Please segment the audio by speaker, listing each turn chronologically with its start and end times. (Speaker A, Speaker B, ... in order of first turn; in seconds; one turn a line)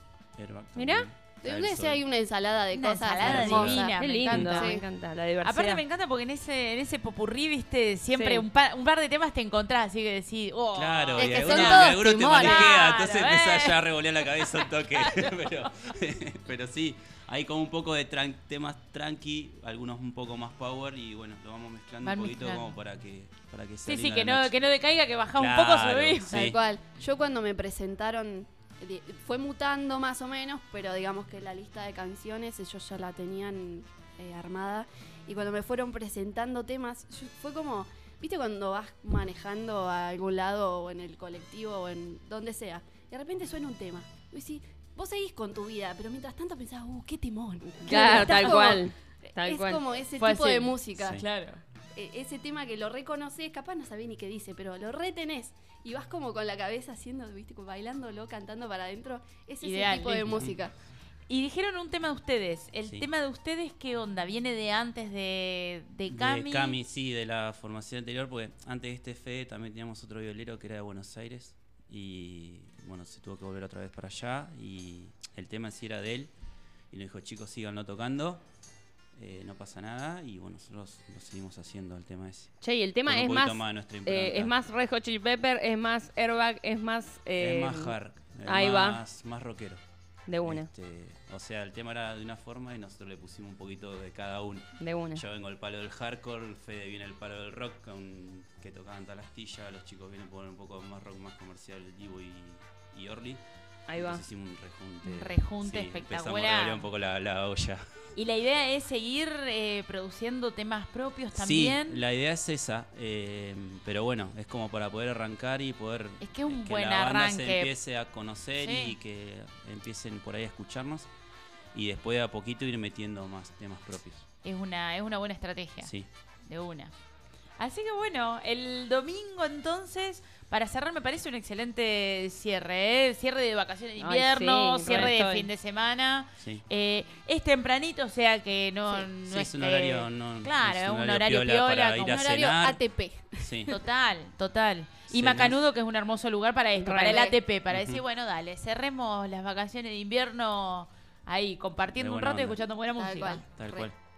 Speaker A: 0.4-2.0
Speaker B: 0.8-1.1
Speaker C: 1.4-4.9
Speaker D: 2.7-4.8
Speaker A: 3.2-4.5
Speaker B: 3.7-5.8
Speaker D: 5.4-15.7
Speaker B: 8.1-8.4
Speaker A: 10.8-24.5
Speaker C: 11.1-12.8
Speaker D: 22.0-22.7
Speaker D: 23.9-26.5
Speaker A: 25.4-26.6
Speaker C: 26.3-51.2
Speaker B: 47.8-49.9
Speaker D: 50.2-51.6
Speaker C: 52.0-60.7
Speaker D: 59.6-60.4
Speaker A: 60.3-60.6
Speaker D: 61.3-66.8
Speaker A: 62.8-63.1
Speaker A: 66.1-76.3
Speaker A: 76.9-78.4
Speaker A: 79.2-82.5
Speaker B: 82.6-88.0
Speaker A: 83.1-84.5
Speaker A: 87.4-89.8
Speaker B: 88.5-89.0
Speaker B: 90.3-90.7
Speaker A: 90.4-108.0
Speaker B: 94.8-95.2
Speaker B: 103.9-104.2
Speaker D: 105.0-106.9
Speaker D: 108.2-112.0
Speaker A: 111.3-121.1
Speaker D: 116.2-117.7
Speaker D: 118.6-119.0
Speaker A: 121.7-124.2
Speaker D: 124.4-125.9
Speaker A: 125.8-126.1
Speaker D: 126.5-126.9
Speaker D: 127.6-142.3
Speaker B: 134.0-135.5
Speaker A: 134.9-135.1
Speaker A: 139.2-142.8
Speaker C: 142.0-143.8
Speaker A: 143.4-143.7
Speaker D: 143.7-153.5
Speaker A: 145.1-145.6
Speaker C: 146.8-147.4
Speaker A: 147.7-148.0
Speaker A: 152.0-152.6
Speaker C: 152.9-153.9
Speaker A: 153.6-153.9